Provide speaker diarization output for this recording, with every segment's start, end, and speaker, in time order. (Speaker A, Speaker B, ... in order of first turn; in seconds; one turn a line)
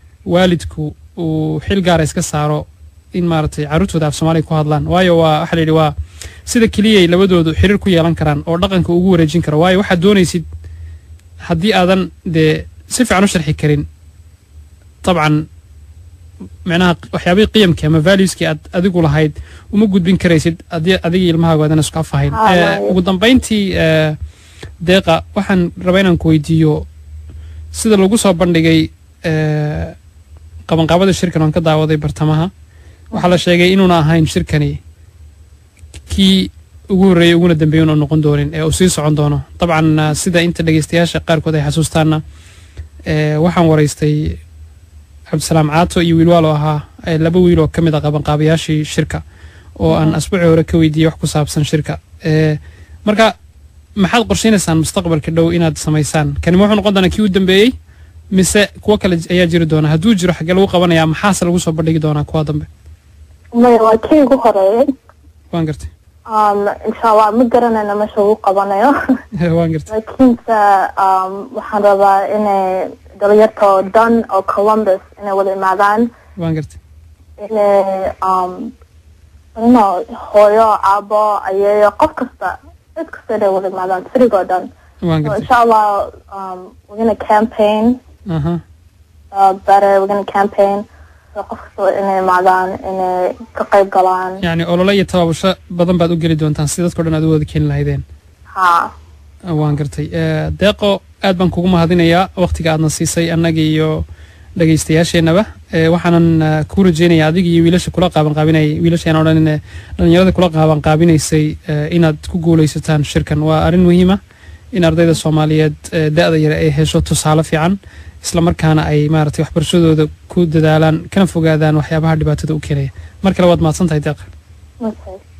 Speaker A: 0.3-5.9
Speaker A: 6.5-10.4
Speaker A: 11.4-13.8
Speaker A: 15.0-15.4
Speaker A: 16.7-24.2
Speaker B: 22.3-23.0
Speaker A: 24.8-26.9
Speaker A: 27.7-29.9
Speaker A: 30.7-32.5
Speaker A: 33.1-34.8
Speaker A: 36.1-42.2
Speaker A: 43.1-44.4
Speaker A: 45.3-49.2
Speaker A: 49.8-53.3
Speaker B: 49.9-50.2
Speaker A: 54.0-57.8
Speaker A: 58.3-62.7
Speaker B: 63.5-64.9
Speaker A: 65.5-65.9
Speaker B: 66.3-68.9
Speaker A: 69.4-69.9
Speaker B: 69.9-76.1
Speaker A: 76.4-76.8
Speaker B: 77.4-78.7
Speaker B: 79.5-84.7
Speaker A: 85.0-85.5
Speaker B: 85.2-88.0
Speaker A: 88.3-88.6
Speaker B: 89.3-94.4
Speaker A: 94.4-98.0
Speaker B: 98.5-98.9
Speaker A: 99.5-104.0
Speaker A: 104.6-114.2
Speaker A: 114.7-124.3
Speaker B: 124.8-125.2